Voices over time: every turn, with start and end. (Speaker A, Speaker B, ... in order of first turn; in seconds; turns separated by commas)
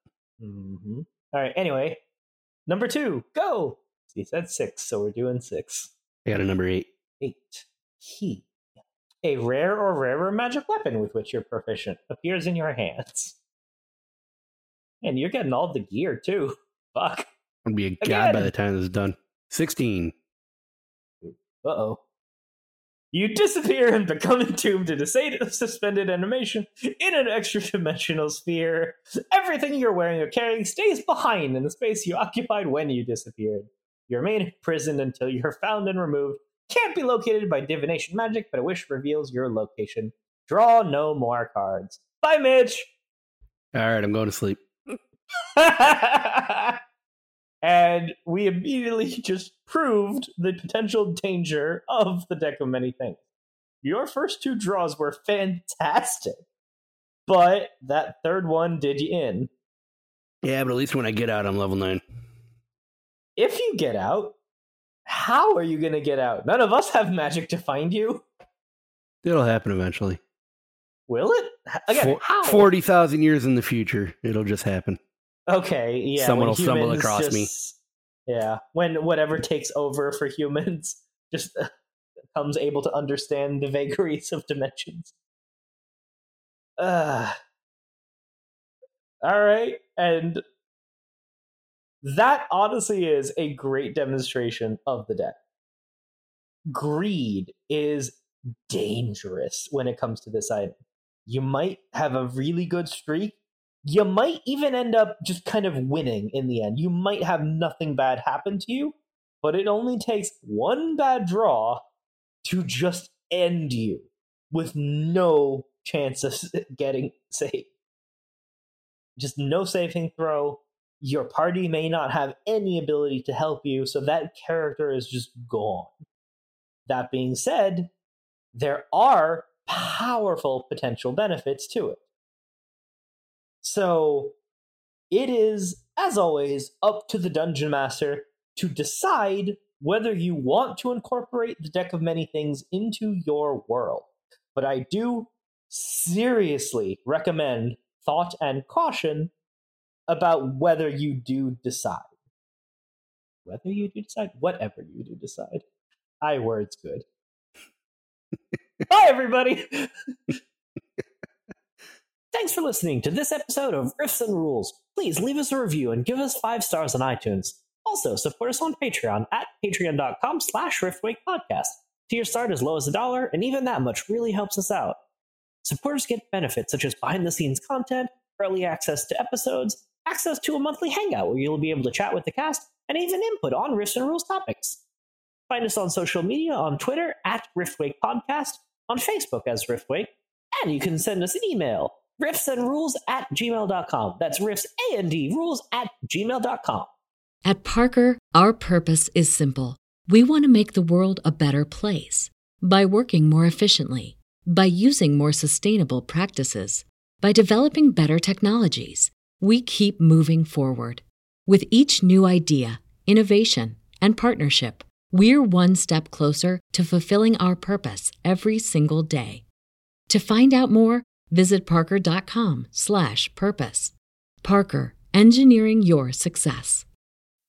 Speaker A: 0.4-2.0, Speaker A: 2.7-5.9, Speaker B: 6.2-6.9, Speaker A: 7.2-8.4, Speaker A: 9.2-13.3, Speaker A: 15.0-17.3, Speaker B: 17.6-20.1, Speaker A: 18.0-18.5, Speaker A: 21.2-22.0, Speaker A: 23.1-42.9, Speaker B: 43.7-44.9, Speaker A: 45.5-46.8, Speaker A: 47.6-53.2, Speaker A: 53.8-56.4, Speaker A: 57.2-59.5, Speaker B: 60.4-62.0, Speaker A: 63.4-64.3, Speaker A: 65.0-68.2, Speaker B: 69.2-70.2, Speaker A: 71.1-72.7, Speaker B: 71.9-75.0, Speaker A: 75.5-77.7, Speaker B: 76.2-77.5, Speaker A: 78.3-81.7, Speaker A: 82.3-85.1, Speaker A: 86.8-87.3, Speaker A: 89.2-90.4, Speaker A: 92.0-95.3, Speaker A: 96.7-111.8, Speaker A: 112.4-117.7, Speaker A: 119.2-126.0, Speaker A: 126.9-127.9, Speaker A: 128.5-132.0, Speaker A: 133.6-134.3, Speaker A: 135.1-149.3, Speaker A: 150.1-152.1, Speaker A: 153.4-155.6, Speaker A: 156.2-157.0, Speaker A: 158.9-159.9, Speaker A: 162.3-175.0, Speaker A: 175.6-184.8, Speaker A: 185.5-196.9, Speaker C: 197.4-219.4, Speaker C: 220.1-226.9